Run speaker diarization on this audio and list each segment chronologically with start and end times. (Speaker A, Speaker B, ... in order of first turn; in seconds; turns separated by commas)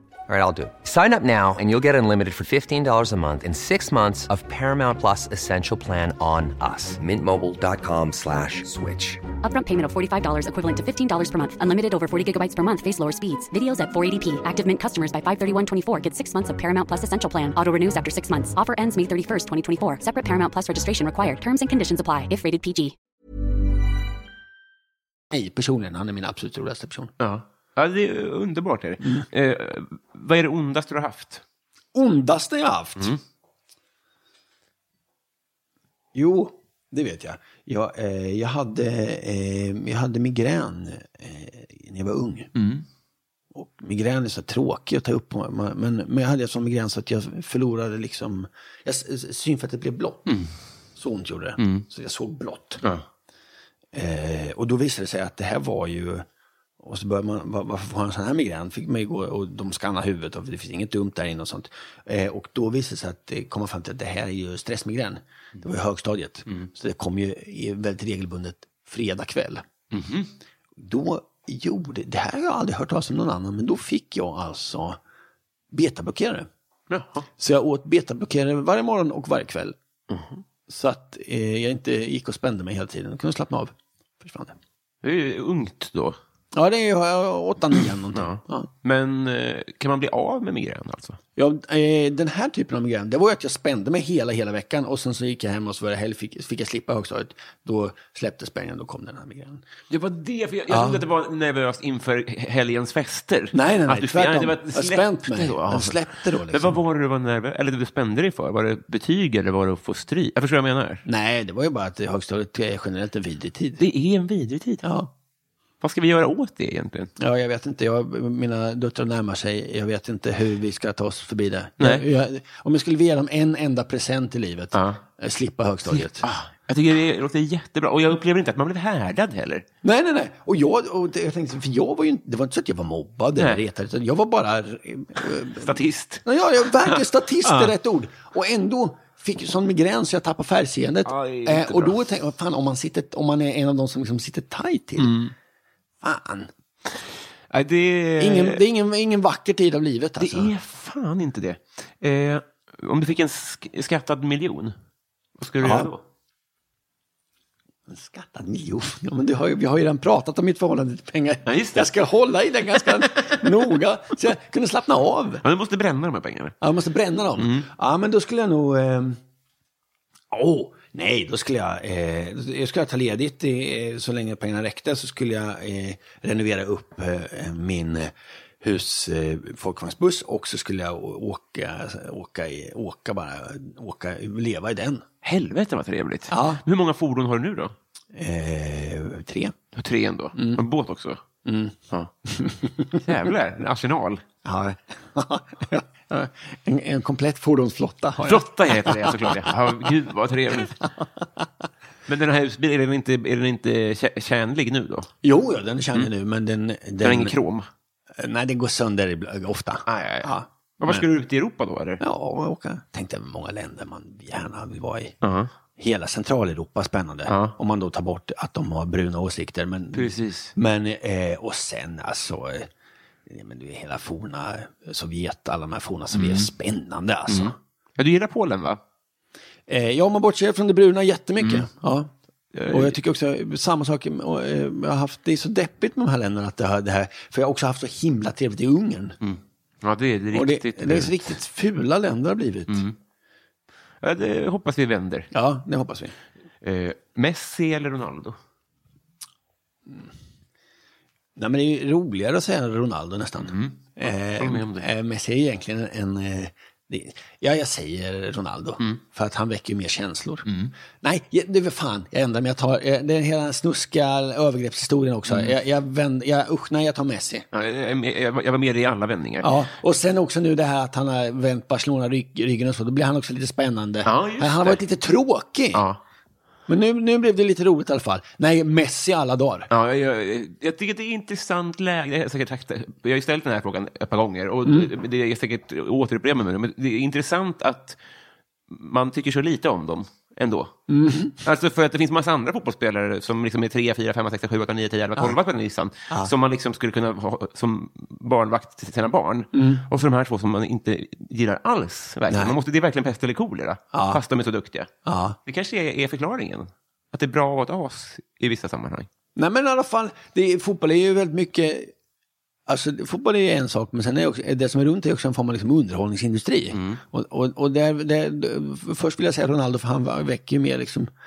Speaker A: 0.3-9.2, Speaker B: 9.4-22.9, Speaker C: 25.3-27.1, Speaker D: 27.2-31.4, Speaker C: 31.9-33.2, Speaker C: 36.1-42.5, Speaker D: 42.5-42.9, Speaker C: 43.5-50.3, Speaker C: 51.0-52.8, Speaker D: 51.6-51.9, Speaker C: 53.9-56.2, Speaker C: 56.8-69.7, Speaker D: 69.9-70.3, Speaker C: 70.8-75.0, Speaker C: 75.7-76.5, Speaker D: 76.9-77.3, Speaker C: 77.4-79.8, Speaker D: 80.1-80.4, Speaker C: 80.7-84.6, Speaker D: 85.0-86.2, Speaker C: 86.5-88.7, Speaker D: 88.1-91.2, Speaker C: 91.4-99.6, Speaker D: 99.9-111.0, Speaker C: 100.7-101.0, Speaker C: 103.5-106.8, Speaker C: 111.0-113.8, Speaker D: 113.8-114.8, Speaker C: 114.8-115.1, Speaker D: 115.8-117.1, Speaker C: 117.2-126.3, Speaker D: 121.8-122.0, Speaker D: 124.7-125.0, Speaker D: 125.9-129.7, Speaker C: 129.8-145.2, Speaker D: 135.5-136.2, Speaker D: 136.8-137.7, Speaker D: 141.1-142.0, Speaker D: 145.0-145.3, Speaker C: 146.0-146.5, Speaker D: 147.5-148.6, Speaker C: 148.2-150.5, Speaker D: 150.2-154.8, Speaker D: 155.4-156.0, Speaker C: 155.6-155.9, Speaker C: 157.9-165.4, Speaker D: 161.5-161.9, Speaker D: 165.4-166.6, Speaker C: 166.6-169.2, Speaker D: 167.4-167.7, Speaker C: 170.3-185.1, Speaker D: 185.2-187.8, Speaker C: 186.3-186.6, Speaker C: 188.1-189.6, Speaker D: 189.7-191.2, Speaker C: 190.4-190.6, Speaker C: 191.4-193.0, Speaker D: 193.0-194.2, Speaker C: 194.4-199.6, Speaker D: 198.2-200.8, Speaker C: 200.8-201.2, Speaker D: 202.1-205.1, Speaker C: 205.2-207.3, Speaker D: 207.0-207.7, Speaker C: 208.2-211.0, Speaker D: 209.9-212.0, Speaker C: 212.0-215.2, Speaker D: 215.2-215.5, Speaker C: 215.8-222.7, Speaker D: 217.3-217.5, Speaker D: 219.9-220.6, Speaker C: 223.3-227.6, Speaker D: 226.1-226.5, Speaker D: 227.3-228.8, Speaker C: 229.7-232.1, Speaker D: 231.4-231.7, Speaker D: 232.5-233.0, Speaker C: 232.7-239.2, Speaker D: 239.2-241.3, Speaker C: 240.3-242.8, Speaker D: 242.7-243.0, Speaker D: 244.0-245.3, Speaker C: 245.3-246.2, Speaker D: 246.6-248.4, Speaker C: 251.4-260.5, Speaker D: 253.4-254.9, Speaker D: 260.5-260.7, Speaker C: 261.0-267.5, Speaker D: 267.5-269.5, Speaker C: 269.4-275.9, Speaker D: 274.1-274.8, Speaker D: 275.7-276.0, Speaker C: 276.7-279.7, Speaker D: 279.7-288.0, Speaker D: 288.7-290.8, Speaker C: 290.9-291.4, Speaker D: 291.4-304.9, Speaker C: 299.5-299.8, Speaker C: 302.3-302.6, Speaker C: 303.9-304.2, Speaker C: 305.1-305.4, Speaker D: 305.4-309.1, Speaker C: 309.4-311.9, Speaker C: 312.7-321.1, Speaker D: 316.7-317.0